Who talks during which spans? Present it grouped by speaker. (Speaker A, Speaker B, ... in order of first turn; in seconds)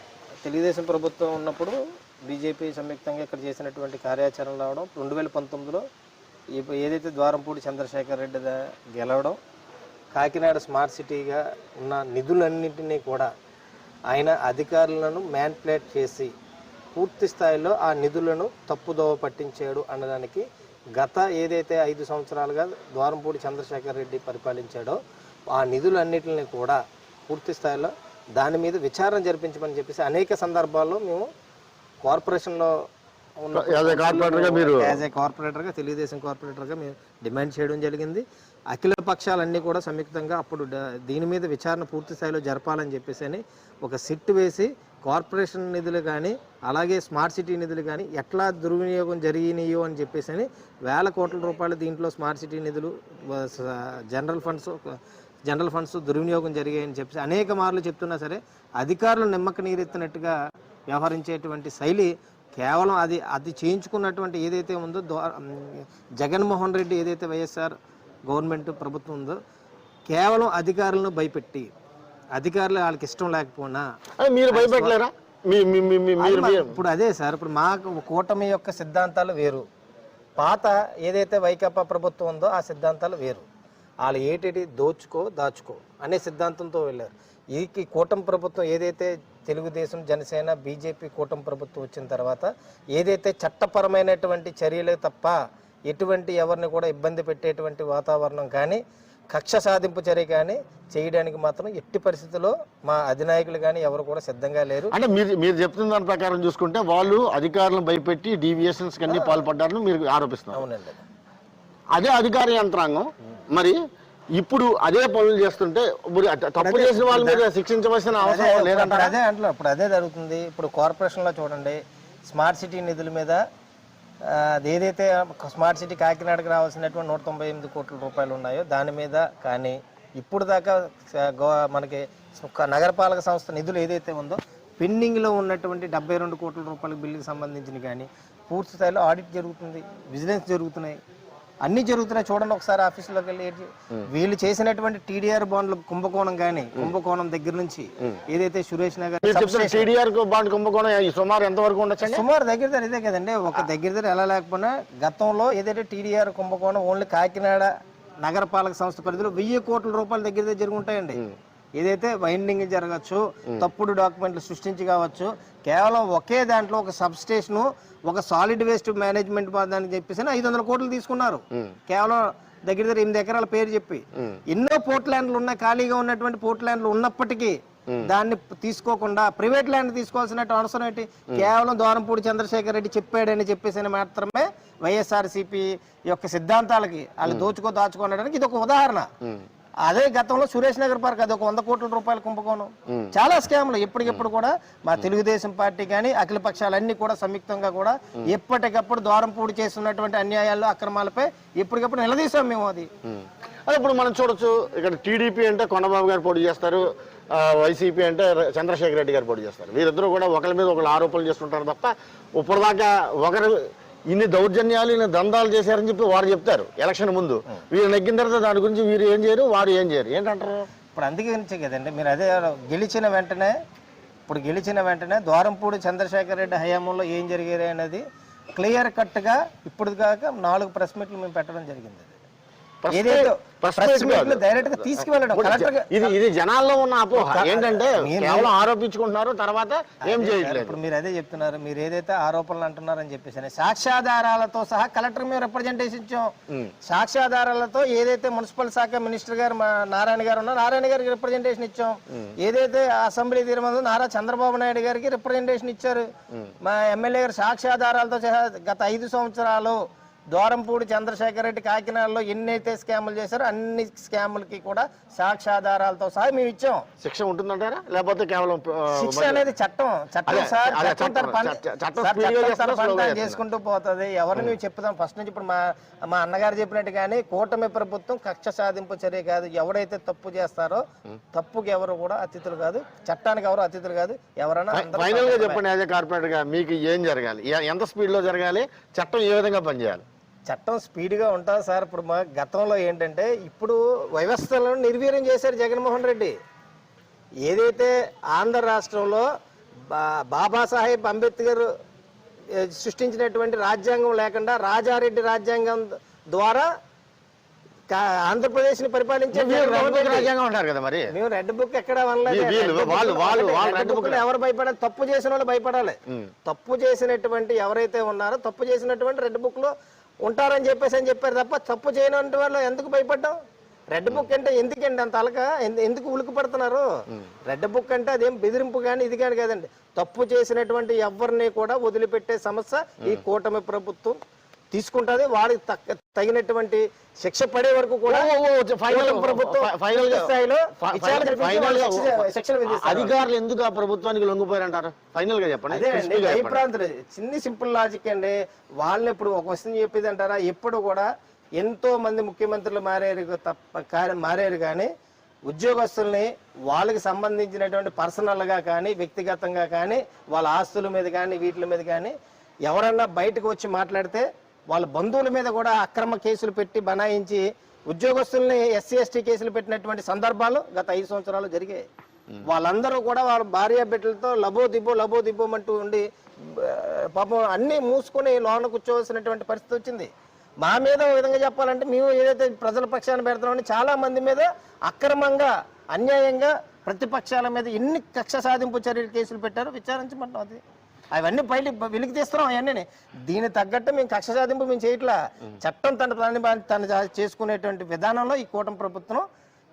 Speaker A: 0.4-5.8, 6.5-9.3, 10.1-13.3, 14.1-16.3, 16.9-20.4, 20.9-25.0, 25.5-31.3, 32.0-32.7, 33.4-60.3, 60.9-67.7, 68.2-69.4, 70.1-71.7, 72.3-73.8, 74.5-75.0, 76.2-79.6, 80.4-83.4, 84.0-95.3, 95.9-104.9, 109.1-109.4, 110.5-111.0, 116.6-117.4, 118.2-123.4, 124.2-141.0, 141.6-149.8, 152.0-157.7, 158.2-161.2, 161.8-189.1, 189.8-202.9, 220.9-223.5, 224.3-232.2, 232.9-236.1, 237.2-238.5, 240.1-246.3, 246.8-256.1, 256.6-259.8, 260.3-266.8, 268.9-285.6, 290.4-296.3, 297.4-299.2, 299.9-301.6, 302.6-306.7, 307.9-310.3, 311.1-319.7, 320.2-323.3, 323.9-326.9, 327.4-334.2, 334.7-338.3, 338.9-343.1, 345.7-354.9, 355.4-371.9, 372.4-380.1, 380.6-390.6, 391.1-399.2
Speaker B: 33.5-35.0, 74.2-76.7, 104.9-110.6, 111.9-113.8, 114.3-119.1, 149.2-152.2, 192.9-193.1, 203.1-213.6, 214.1-220.7, 232.8-240.8, 267.0-269.4, 270.3-273.4, 284.7-290.0, 309.3-311.1, 312.2-314.2, 338.1-346.6